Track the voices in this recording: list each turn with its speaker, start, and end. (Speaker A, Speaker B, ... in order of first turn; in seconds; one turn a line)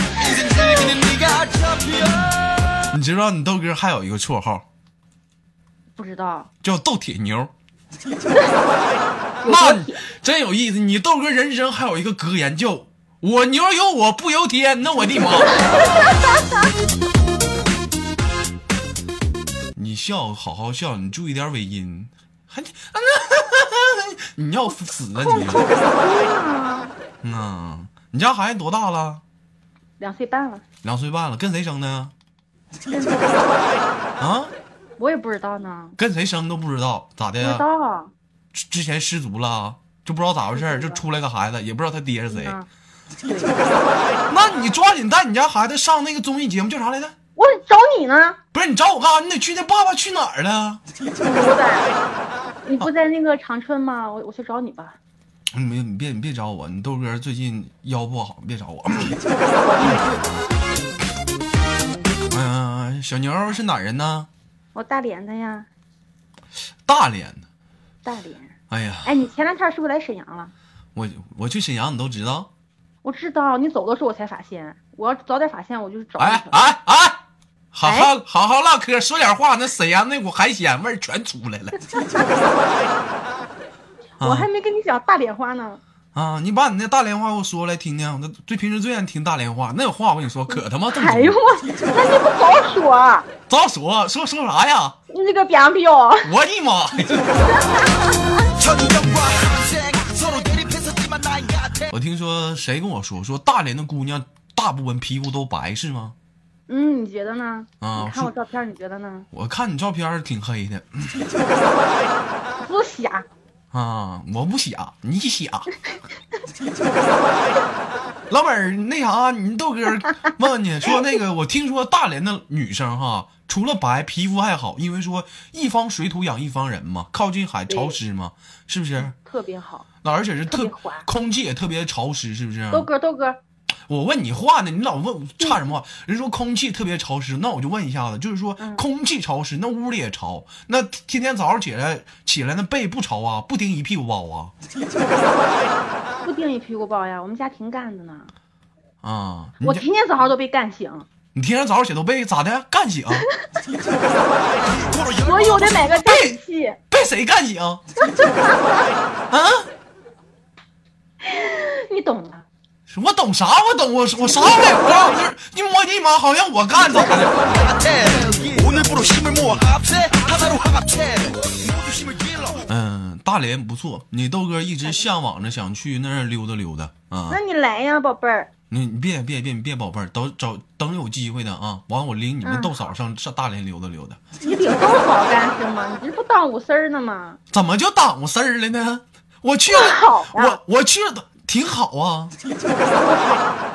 Speaker A: 0.1-2.3
Speaker B: 2.9-4.7
Speaker C: 6.0-6.5
Speaker B: 6.6-7.5
Speaker C: 9.4-10.0
Speaker B: 9.4-15.9
Speaker C: 15.6-16.4
Speaker B: 19.8-25.6
Speaker C: 25.2-26.9
Speaker B: 27.2-29.2
Speaker C: 30.0-30.6
Speaker B: 30.8-32.1
Speaker C: 32.9-33.3
Speaker B: 34.2-34.5
Speaker C: 35.0-36.0
Speaker B: 36.0-37.6
Speaker C: 37.4-38.1
Speaker B: 38.5-42.6
Speaker C: 40.5-41.0
Speaker C: 42.3-42.7
Speaker C: 43.3-43.6
Speaker B: 44.3-47.1
Speaker C: 47.4-48.4
Speaker B: 48.5-50.8
Speaker C: 51.2-51.9
Speaker C: 52.6-55.0
Speaker B: 55.5-59.2
Speaker C: 59.4-60.3
Speaker B: 62.3-64.3
Speaker C: 64.8-65.7
Speaker B: 66.9-67.4
Speaker C: 68.0-70.5
Speaker B: 68.7-69.1
Speaker B: 71.0-72.5
Speaker C: 73.0-76.7
Speaker B: 76.2-77.2
Speaker B: 77.7-81.8
Speaker C: 77.8-78.1
Speaker B: 84.2-84.5
Speaker C: 84.2-85.8
Speaker B: 86.1-91.4
Speaker C: 90.9-93.3
Speaker B: 93.5-95.0
Speaker C: 95.1-96.3
Speaker B: 96.2-97.5
Speaker C: 97.5-98.5
Speaker A: 98.6-101.9
Speaker B: 101.9-106.2
Speaker C: 106.7-109.3
Speaker B: 107.8-108.3
Speaker B: 109.3-111.3
Speaker C: 112.6-113.3
Speaker B: 113.7-115.7
Speaker B: 118.3-129.1
Speaker C: 127.7-127.9
Speaker C: 129.0-129.9
Speaker B: 130.0-132.9
Speaker C: 130.5-131.1
Speaker C: 132.7-133.4
Speaker B: 133.9-144.5
Speaker C: 138.6-138.8
Speaker C: 146.2-148.3
Speaker B: 149.0-149.8
Speaker C: 149.6-151.1
Speaker B: 151.3-153.3
Speaker A: 154.7-155.8
Speaker C: 155.2-156.8
Speaker B: 156.0-156.4
Speaker B: 156.9-157.8
Speaker C: 158.1-158.9
Speaker B: 159.3-159.7
Speaker C: 161.2-162.5
Speaker B: 162.9-167.8
Speaker C: 164.4-165.2
Speaker A: 167.6-172.7
Speaker C: 168.1-168.6
Speaker B: 172.7-177.4
Speaker C: 177.3-178.5
Speaker B: 178.7-184.2
Speaker C: 182.4-182.8
Speaker C: 184.4-187.4
Speaker B: 187.5-192.3
Speaker C: 189.7-190.6
Speaker C: 192.9-193.6